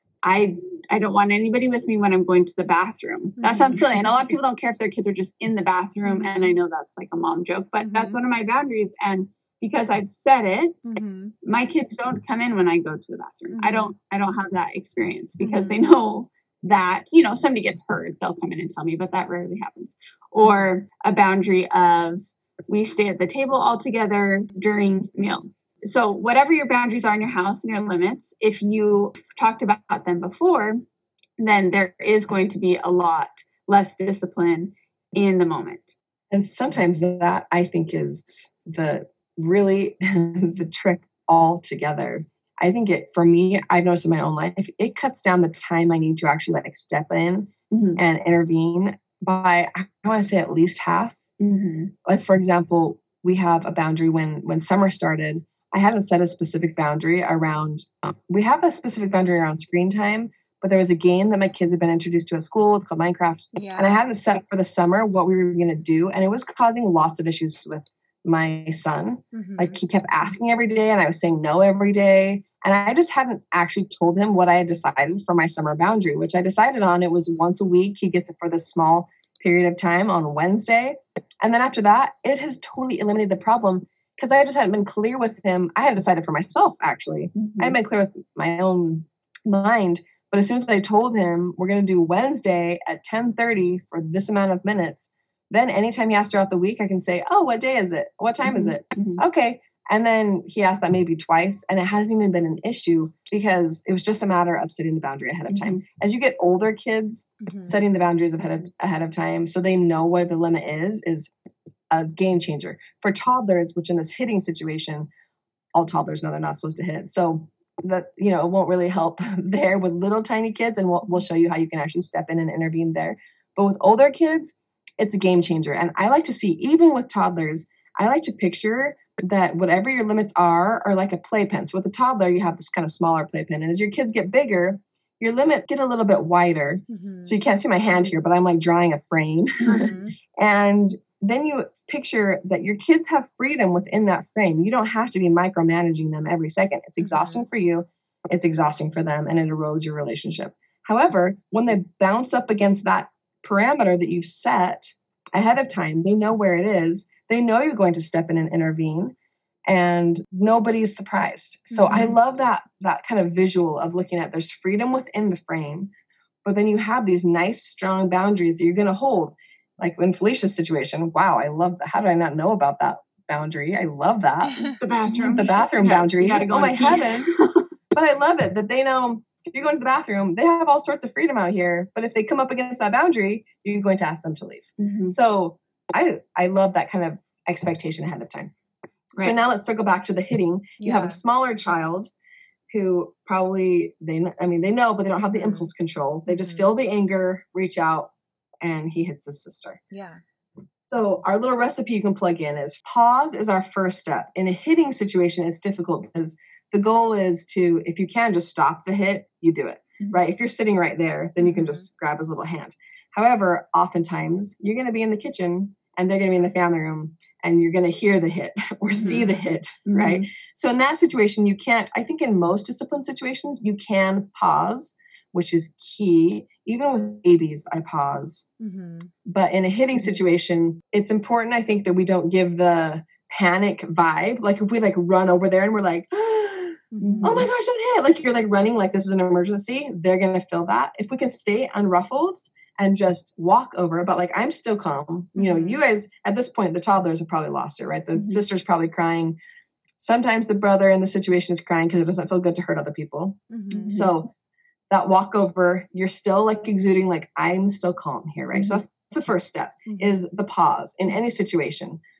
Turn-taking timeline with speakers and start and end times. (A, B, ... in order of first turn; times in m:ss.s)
0:00.2-0:10.9 A
0:03.4-0:03.8 B
0:06.0-0:06.6 B
0:07.8-0:08.2 B
0:10.8-0:11.3 B
0:11.4-0:30.8 A
0:13.5-0:13.9 B
0:15.4-0:15.8 B
0:20.4-0:20.7 B
0:31.4-0:35.9 A
0:36.3-0:51.2 C
0:47.7-0:48.0 A
0:51.4-0:51.9 A
0:52.0-1:51.3 C
1:03.6-1:03.9 B
1:09.3-1:09.8 B
1:27.3-1:27.8 A
1:38.4-1:39.2 A
1:45.5-1:45.8 A
1:47.4-1:47.8 B
1:51.9-1:55.1 C
1:55.7-2:39.1 C
2:16.9-2:17.4 B
2:19.6-2:19.9 A
2:19.7-2:20.2 B
2:27.0-2:27.4 B
2:39.7-2:45.9 C
2:41.7-2:42.1 B
2:46.4-2:57.4 C
2:54.8-2:57.6 A
2:57.9-3:08.5 C
3:04.8-3:05.1 A
3:09.2-3:12.1 C
3:10.8-3:11.2 B
3:12.7-3:18.1 C
3:15.3-3:15.7 B
3:16.3-3:16.7 B
3:18.6-3:19.8 C
3:19.9-3:20.2 B
3:20.9-3:48.4 C
3:31.4-3:31.8 B
3:38.9-3:39.2 A
3:39.0-3:39.4 B
3:39.8-3:40.3 A
3:48.6-3:49.1 B
3:49.2-4:09.4 C
3:56.9-3:57.4 B
3:57.0-3:57.5 A
4:05.4-4:05.8 B
4:08.1-4:08.4 A
4:10.0-4:13.4 C
4:13.5-4:14.0 B
4:13.7-4:14.1 A
4:13.9-4:14.3 C
4:14.9-4:22.0 C
4:18.5-4:18.8 A
4:19.9-4:20.2 B